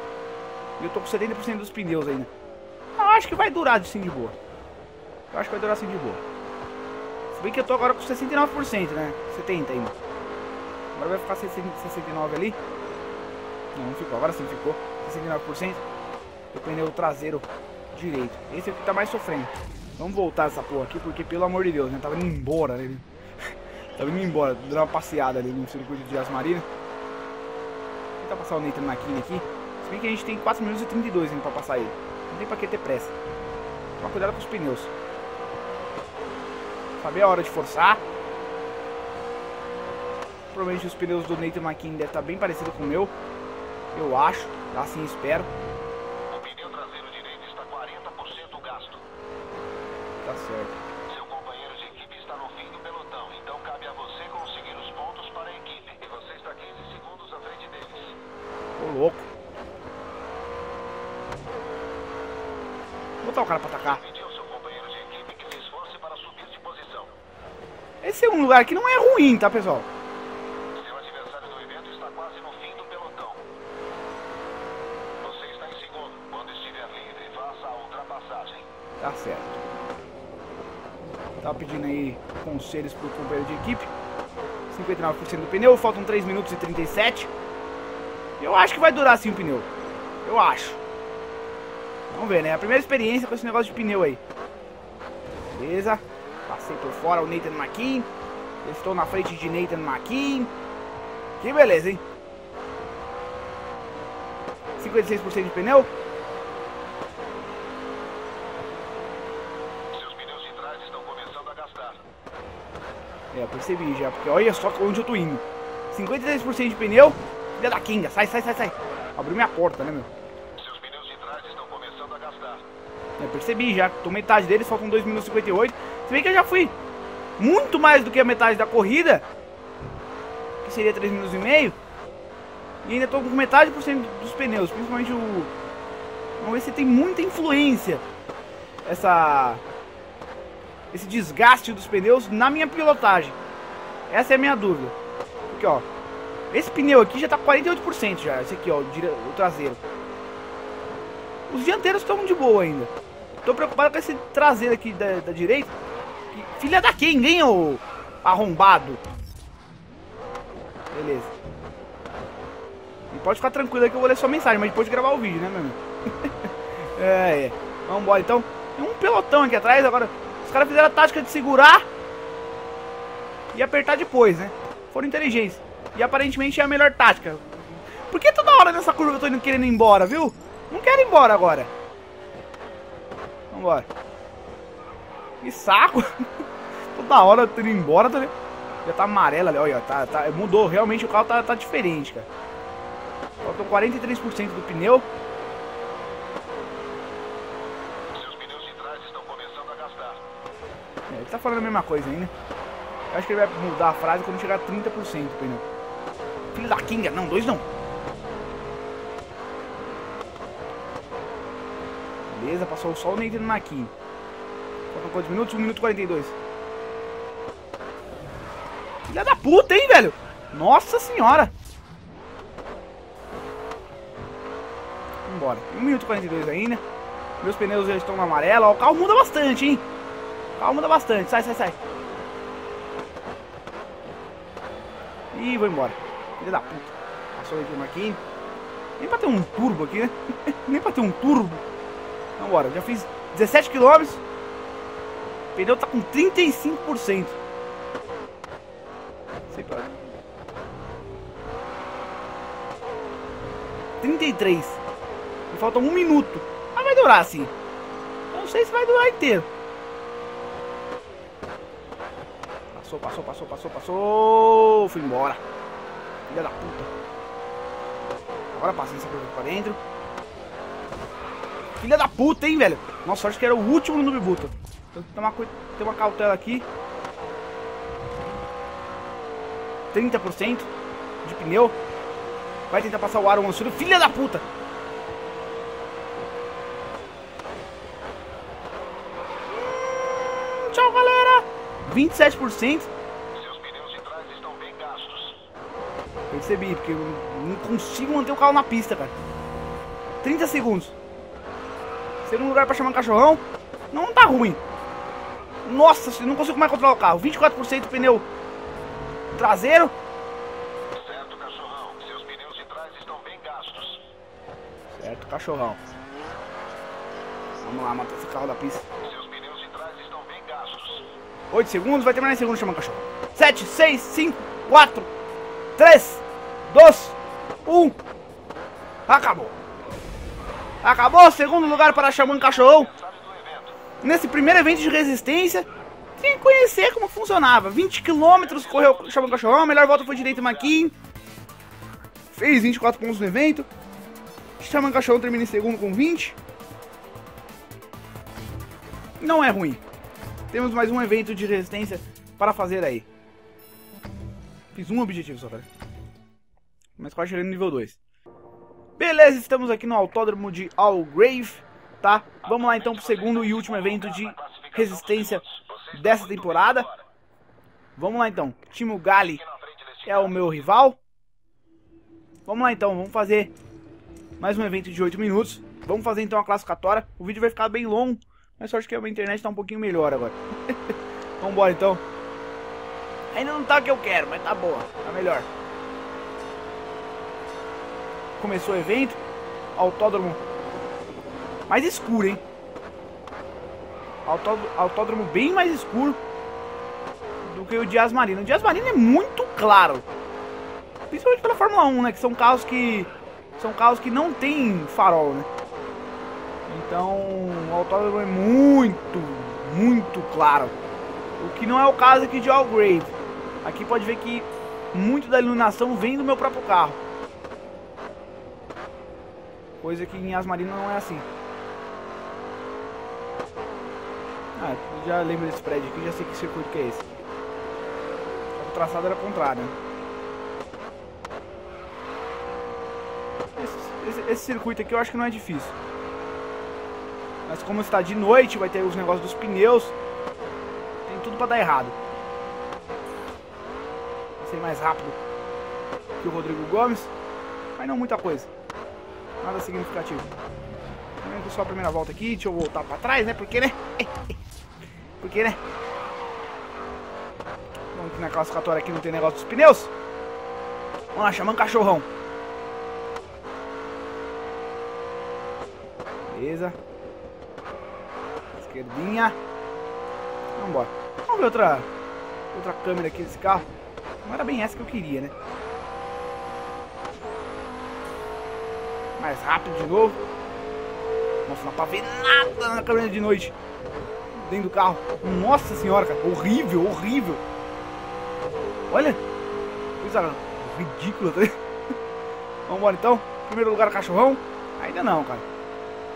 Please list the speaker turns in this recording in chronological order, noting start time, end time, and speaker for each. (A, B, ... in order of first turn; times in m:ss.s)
0:00.8-0:02.3 A
0:03.0-0:04.4 A
0:05.3-0:06.2 A
0:07.3-0:09.9 A
0:10.9-0:12.6 A
0:13.7-0:15.8 A
0:16.5-0:23.0 A
0:24.0-0:26.6 A
0:28.2-0:33.1 A
0:34.0-0:34.9 A
0:37.0-0:38.0 A
0:40.5-0:43.1 A
0:43.9-0:45.5 A
0:46.3-0:49.0 B
0:50.2-0:50.8 A
0:51.1-0:58.2 B
0:58.8-0:59.3 A
1:03.2-1:04.0 A
1:03.9-1:07.1 B
1:08.0-1:09.9 A
1:10.7-1:13.4 B
1:15.2-1:18.6 B
1:19.0-1:19.6 A
1:21.4-1:23.9 A
1:24.7-1:27.3 A
1:28.4-1:29.7 A
1:30.2-1:30.8 A
1:32.1-1:34.2 A
1:35.5-1:38.1 A
1:38.6-1:40.5 A
1:41.4-1:42.0 A
1:44.8-1:45.9 A
1:49.9-1:52.0 B
1:53.3-2:00.1 A
2:00.6-2:02.6 B
2:03.2-2:06.7 A
2:07.4-2:09.2 A
2:10.6-2:11.8 A
2:12.8-2:15.5 A
2:16.4-2:18.0 A
2:18.8-2:19.6 A
2:20.9-2:23.4 A
2:24.1-2:24.9 A
2:25.5-2:25.8 A
2:26.5-2:29.8 A
2:31.5-2:32.9 A
2:33.4-2:35.7 A
2:36.3-2:39.0 A
2:40.9-2:41.3 A
2:43.1-2:51.9 A
2:53.5-3:01.7 A
3:03.5-3:03.9 A
3:05.4-3:06.3 A
3:06.9-3:08.3 A
3:08.8-3:12.3 A
3:13.4-3:15.1 A
3:18.1-3:20.2 B
3:21.1-3:22.3 A
3:23.1-3:25.6 A
3:26.5-3:27.6 A
3:32.3-3:33.9 A
3:34.9-3:36.4 A
3:39.1-3:41.5 A
3:45.2-3:46.8 A
3:47.4-3:49.8 A
3:50.6-3:51.8 A
3:55.3-3:58.2 A
3:59.0-4:01.6 A
4:02.4-4:04.2 A
4:05.5-4:07.4 A
4:09.5-4:10.1 A
4:14.0-4:14.8 A
4:15.5-4:17.5 A
4:18.3-4:19.5 A
4:22.7-4:25.4 A
4:26.3-4:26.9 A
4:28.5-4:29.8 A
4:31.8-4:36.6 A
4:39.9-4:40.7 A
4:41.2-4:41.8 A
4:42.7-4:44.4 A
4:49.5-4:52.9 A
4:53.3-4:55.4 B
4:56.3-4:59.1 A
5:00.2-5:00.9 A
5:02.2-5:04.6 A
5:05.6-5:08.2 A
5:09.3-5:09.9 A
5:10.9-5:14.0 B
5:14.9-5:15.8 A
5:17.6-5:18.8 A
5:19.0-5:21.1 B
5:21.5-5:25.1 A
5:25.8-5:27.9 A
5:29.1-5:29.6 A
5:30.8-5:32.9 A
5:31.7-5:33.7 B
5:34.0-5:35.7 A
5:36.2-5:40.9 A
5:38.3-5:40.8 B
5:42.3-5:43.7 A
5:44.6-5:46.4 A
5:49.2-5:49.8 A
5:50.5-5:53.1 A
5:54.7-5:55.7 A
5:57.0-5:58.0 A
5:59.0-6:06.9 A
6:02.4-6:07.0 B
6:08.0-6:09.4 A
6:09.4-6:10.6 B
6:10.0-6:11.0 A
6:12.5-6:13.5 A
6:14.4-6:20.8 A
6:21.4-6:22.0 A
6:23.3-6:25.5 A
6:28.4-6:29.2 A
6:29.8-6:30.4 A
6:31.7-6:32.4 A
6:34.2-6:36.2 A
6:37.4-6:40.0 A
6:41.1-6:45.5 A
6:46.7-6:50.7 A
6:51.4-6:57.0 A
6:59.8-7:01.2 A
7:04.6-7:07.0 A
7:08.5-7:09.7 A
7:13.6-7:15.7 A
7:17.4-7:19.9 A
7:21.0-7:22.0 A
7:24.4-7:25.2 A
7:26.2-7:27.1 A
7:27.8-7:28.5 A
7:29.4-7:30.3 A
7:31.2-7:34.3 A
7:35.2-7:35.6 A
7:37.9-7:39.9 A
7:41.1-7:42.0 A
7:46.3-7:46.8 A
7:48.6-7:49.4 A
7:50.6-7:51.9 A
7:52.5-7:53.7 A
7:54.2-7:55.3 A
7:59.2-8:00.2 A
8:01.4-8:03.5 A
8:04.3-8:07.4 A
8:08.9-8:09.2 A
8:10.0-8:11.6 A
8:12.7-8:15.4 A